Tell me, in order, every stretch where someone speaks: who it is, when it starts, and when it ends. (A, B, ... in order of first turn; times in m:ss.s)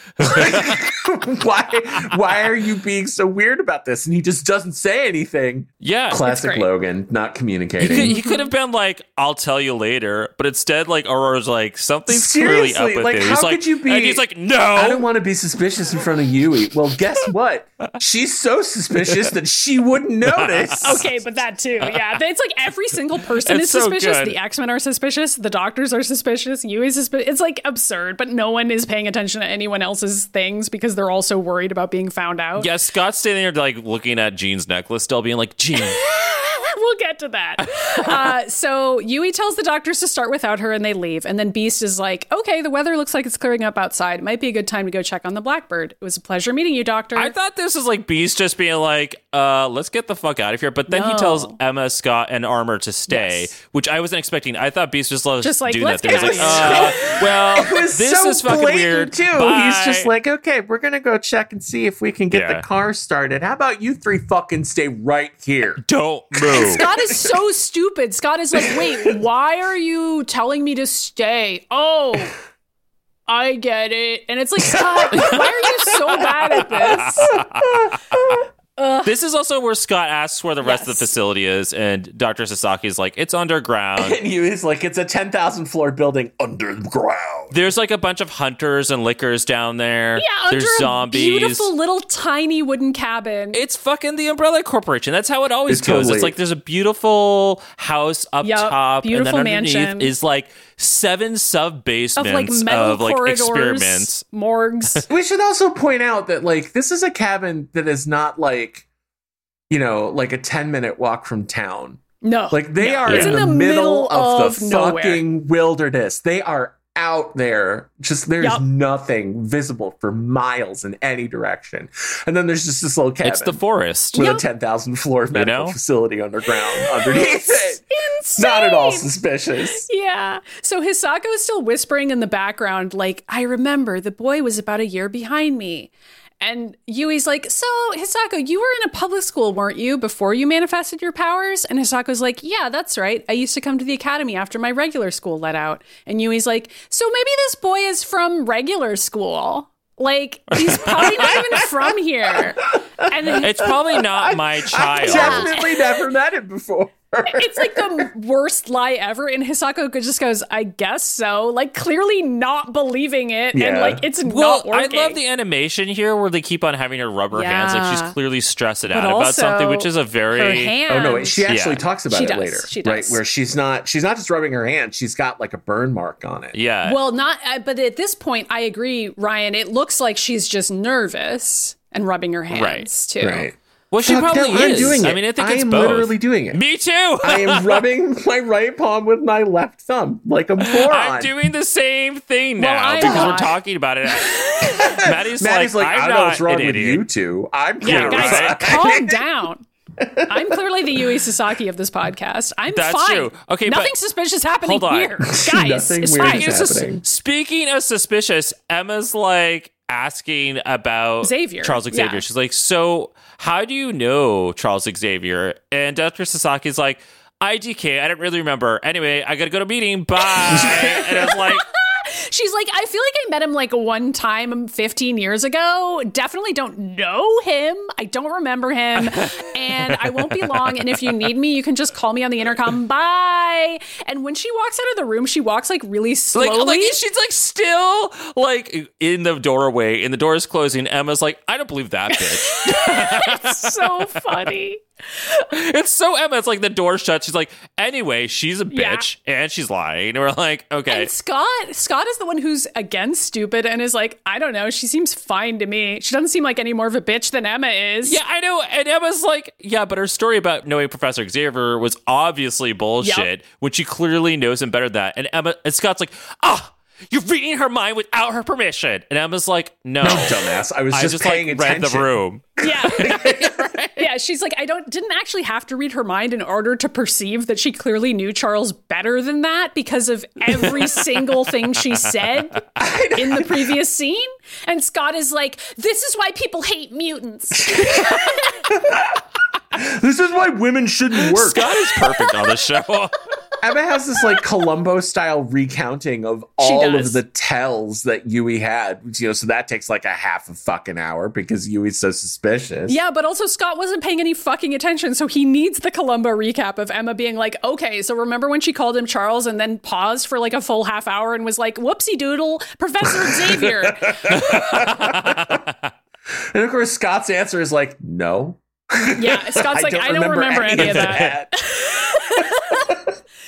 0:00.2-0:00.8 A
0:00.2-0:08.2 B
0:05.8-0:06.2 A
0:06.2-0:06.7 C
0:07.8-0:15.0 A
0:08.0-0:08.5 C
0:12.1-0:21.0 B
0:20.3-0:21.0 A
0:20.8-0:32.7 C
0:23.4-0:24.4 A
0:32.6-0:36.0 A
0:35.8-0:47.3 C
0:37.8-0:38.3 A
0:47.1-1:00.1 A
0:50.9-0:51.6 C
0:53.1-0:53.5 C
0:55.4-0:57.2 C
0:56.1-1:05.8 B
1:02.3-1:02.6 A
1:05.8-1:06.8 A
1:06.3-1:07.2 B
1:06.5-1:12.3 C
1:08.5-1:09.2 B
1:13.3-1:17.4 C
1:14.6-1:18.4 B
1:16.7-1:17.7 A
1:18.8-1:19.1 C
1:19.0-1:24.2 A
1:20.6-1:21.1 C
1:24.0-1:27.5 B
1:27.5-1:31.7 A
1:30.2-1:33.6 C
1:33.5-1:44.2 A
1:35.7-1:36.4 B
1:38.4-1:40.1 C
1:42.2-1:45.0 C
1:45.1-1:48.8 B
1:49.7-2:03.6 B
1:52.2-1:55.2 C
1:53.0-1:53.4 A
2:03.2-2:04.2 A
2:04.1-2:04.4 C
2:04.1-2:07.8 B
2:05.3-2:05.8 A
2:06.7-2:09.1 C
2:08.4-2:09.8 B
2:09.8-2:33.8 C
2:30.6-2:31.6 A
2:32.7-2:38.1 B
2:33.4-2:35.5 A
2:35.0-2:35.9 C
2:37.2-2:45.2 C
2:43.5-2:44.0 B
2:44.2-2:50.8 A
2:47.3-2:48.1 C
2:48.9-2:51.4 C
2:50.9-2:56.6 B
2:51.5-2:51.8 A
2:52.1-2:53.2 C
2:56.5-2:57.0 A
2:56.8-3:03.5 C
3:02.5-3:02.9 A
3:03.2-3:06.6 B
3:03.9-3:07.8 A
3:07.2-3:11.3 B
3:10.6-3:17.0 A
3:12.6-3:13.6 C
3:13.0-3:13.4 B
3:14.1-3:15.0 C
3:14.8-3:19.2 B
3:17.8-3:19.6 C
3:17.8-3:18.6 A
3:20.0-3:21.0 B
3:20.3-3:26.6 C
3:22.7-3:23.9 A
3:24.6-3:25.2 A
3:25.3-3:27.0 B
3:26.2-3:41.6 A
3:31.2-3:32.2 C
3:40.2-3:57.0 C
3:40.5-3:41.3 B
3:49.0-3:51.1 A
3:56.3-4:04.3 A
4:02.1-4:05.3 C
4:05.5-4:11.1 A
4:08.7-4:09.0 C
4:10.9-4:18.2 C
4:18.0-4:34.0 A
4:23.0-4:23.3 C
4:30.0-4:33.7 B
4:32.6-4:48.7 C
4:42.8-4:43.7 B
4:47.7-4:51.8 B
4:51.2-4:53.1 A
4:53.6-5:03.0 B
4:56.6-4:57.2 C
5:02.9-5:14.6 C
5:13.2-5:15.6 B
5:14.3-5:15.7 A
5:16.5-5:21.6 B
5:19.2-5:23.0 C
5:20.8-5:21.2 A
5:22.4-5:23.0 B